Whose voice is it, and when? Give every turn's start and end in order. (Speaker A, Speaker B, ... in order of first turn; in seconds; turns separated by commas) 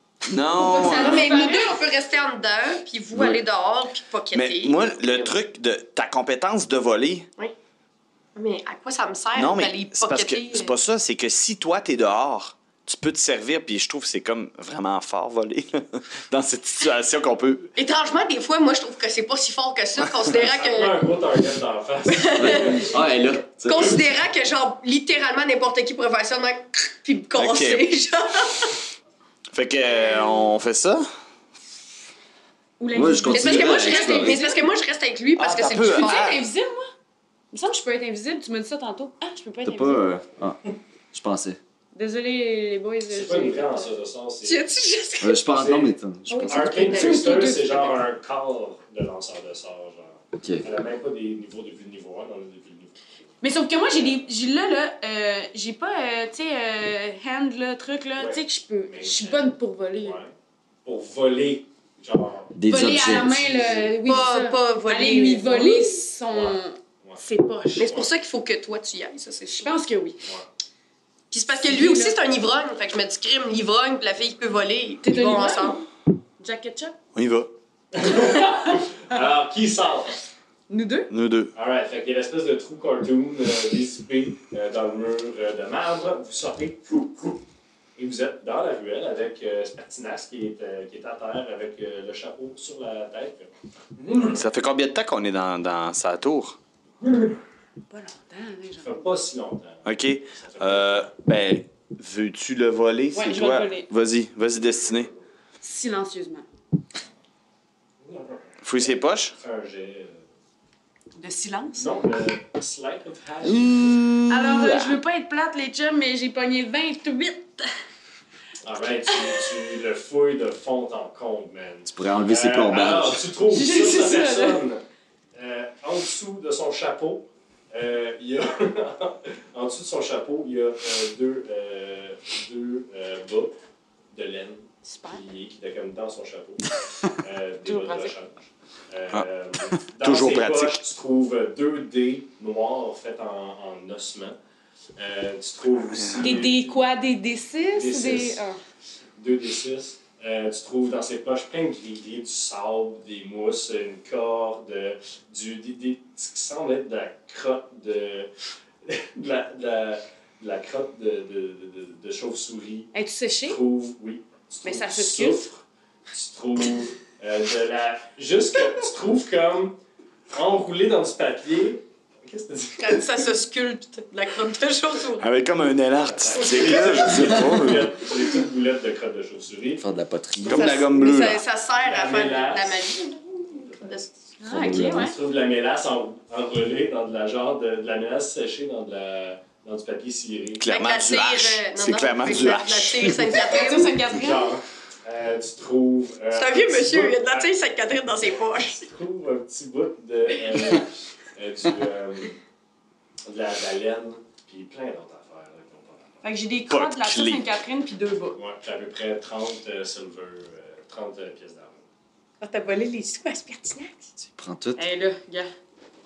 Speaker A: 0.2-1.5, Speaker B: 0.6-1.8, Speaker C: 0.6-5.3, Speaker A: 3.1-3.4, Speaker A: 4.3-7.3, Speaker C: 8.3-10.7, Speaker A: 9.3-17.7, Speaker C: 17.7-21.0, Speaker D: 20.3-23.0, Speaker C: 22.1-22.9, Speaker E: 22.4-24.0, Speaker C: 23.6-28.8, Speaker A: 27.3-27.9, Speaker A: 29.5-31.1, Speaker B: 32.8-34.7, Speaker E: 32.9-34.4, Speaker C: 33.3-36.3, Speaker A: 35.4-36.4, Speaker B: 35.8-36.9, Speaker B: 37.5-40.0, Speaker E: 39.6-41.6, Speaker B: 41.9-43.9, Speaker D: 43.1-44.6, Speaker C: 44.4-45.4, Speaker E: 45.2-47.1, Speaker D: 45.5-45.9, Speaker C: 46.3-47.2, Speaker D: 46.5-53.0, Speaker B: 46.5-48.0, Speaker E: 50.3-50.6, Speaker B: 53.4-60.2, Speaker D: 58.2-60.3, Speaker D: 60.8-62.5, Speaker E: 62.5-63.6, Speaker B: 62.7-67.9, Speaker D: 63.3-63.9, Speaker C: 64.0-66.0, Speaker D: 66.3-67.2, Speaker D: 67.8-68.1, Speaker C: 67.8-69.7, Speaker B: 69.4-70.2, Speaker C: 71.3-75.8, Speaker B: 71.6-72.2, Speaker B: 75.0-75.9, Speaker B: 76.4-77.0, Speaker A: 77.1-77.5, Speaker D: 77.9-80.2, Speaker B: 80.7-81.1, Speaker A: 81.1-81.5, Speaker D: 81.5-87.4, Speaker D: 88.0-94.4, Speaker A: 94.2-96.6, Speaker D: 97.0-97.3, Speaker B: 97.9-99.2, Speaker D: 98.8-101.1, Speaker A: 99.8-105.1, Speaker B: 103.1-103.9, Speaker B: 105.6-106.5, Speaker D: 108.0-110.2, Speaker A: 108.6-109.3, Speaker B: 111.2-112.0, Speaker D: 111.7-114.0, Speaker A: 113.5-115.0, Speaker B: 114.3-117.7, Speaker D: 118.6-124.8, Speaker E: 121.9-123.2, Speaker B: 123.5-124.6, Speaker D: 125.3-133.5, Speaker D: 134.1-144.4, Speaker B: 134.8-135.2, Speaker B: 137.6-138.1, Speaker A: 139.1-140.8, Speaker D: 145.0-146.8, Speaker A: 145.9-146.5, Speaker B: 146.2-148.6, Speaker D: 147.7-148.4, Speaker D: 149.2-158.3, Speaker D: 158.8-162.9, Speaker B: 162.9-163.6, Speaker D: 163.4-169.8, Speaker B: 164.6-165.5, Speaker D: 170.3-173.2, Speaker C: 172.8-175.2, Speaker A: 175.2-178.0, Speaker D: 176.1-179.8, Speaker E: 179.8-180.8, Speaker A: 180.4-181.4, Speaker C: 180.4-184.1, Speaker D: 181.7-182.9, Speaker D: 183.5-184.0, Speaker B: 184.4-185.2, Speaker E: 184.5-185.1, Speaker D: 184.7-190.7, Speaker A: 190.6-193.2, Speaker C: 190.7-194.1, Speaker B: 193.2-194.6, Speaker D: 194.1-197.5, Speaker C: 196.3-198.9, Speaker D: 198.7-202.4, Speaker D: 203.2-206.2, Speaker B: 206.2-208.4, Speaker A: 206.7-207.4, Speaker D: 208.3-211.8, Speaker C: 212.4-214.0, Speaker E: 214.2-214.8, Speaker B: 214.8-215.5